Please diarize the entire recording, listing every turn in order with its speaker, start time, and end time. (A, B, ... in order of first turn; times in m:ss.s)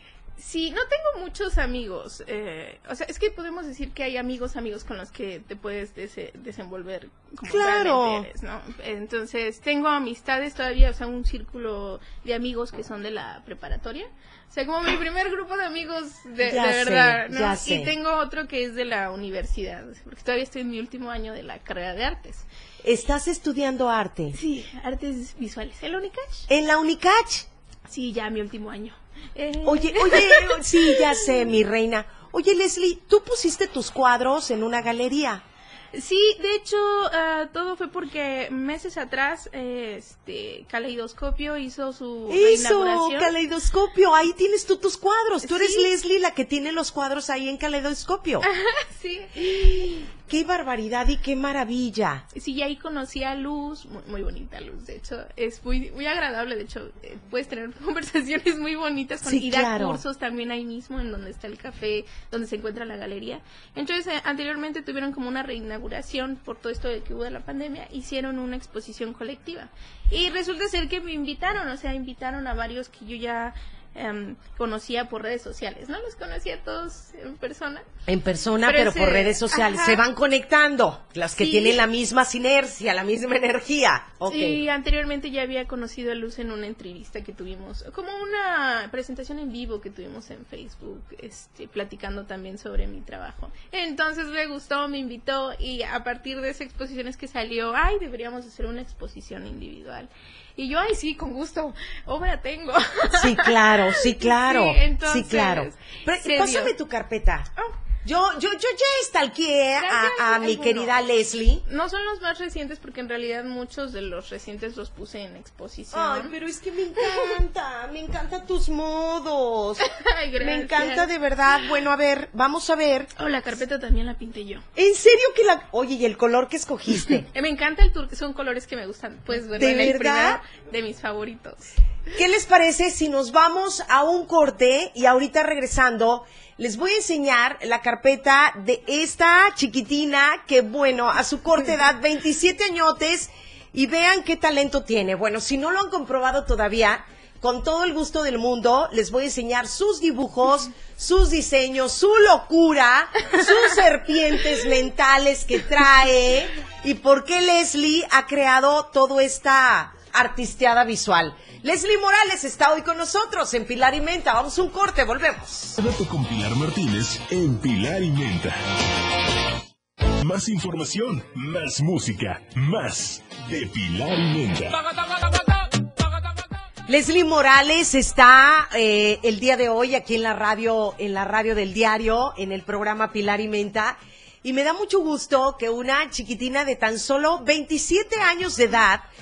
0:00.4-0:22.4 A
0:07.4-0:08.3 B
0:16.4-0:17.9 B
0:22.8-0:24.4 B
0:24.4-0:26.5 A
0:26.5-0:27.5 B
0:27.9-0:31.5 A
0:29.6-0:35.4 B
0:35.9-0:43.3 A
0:42.3-0:48.5 B
0:45.4-0:45.9 A
0:48.4-0:50.1 A
0:49.4-0:52.2 B
0:52.3-1:17.8 A
0:59.2-1:00.0 B
1:18.1-1:24.6 B
1:18.6-1:20.0 A
1:21.4-1:21.8 A
1:24.3-1:46.7 A
1:43.1-1:47.5 B
1:48.0-1:51.6 B
1:49.8-1:50.9 A
1:51.6-1:56.3 A
1:55.9-1:59.8 B
1:57.0-1:57.3 A
1:59.8-2:01.1 A
2:00.4-2:03.1 B
2:03.2-2:04.6 A
2:04.8-2:07.3 B
2:07.3-2:11.7 A
2:09.5-2:10.4 B
2:12.1-2:45.8 B
2:45.8-2:48.6 C
2:50.2-2:54.8 C
2:56.9-3:09.0 B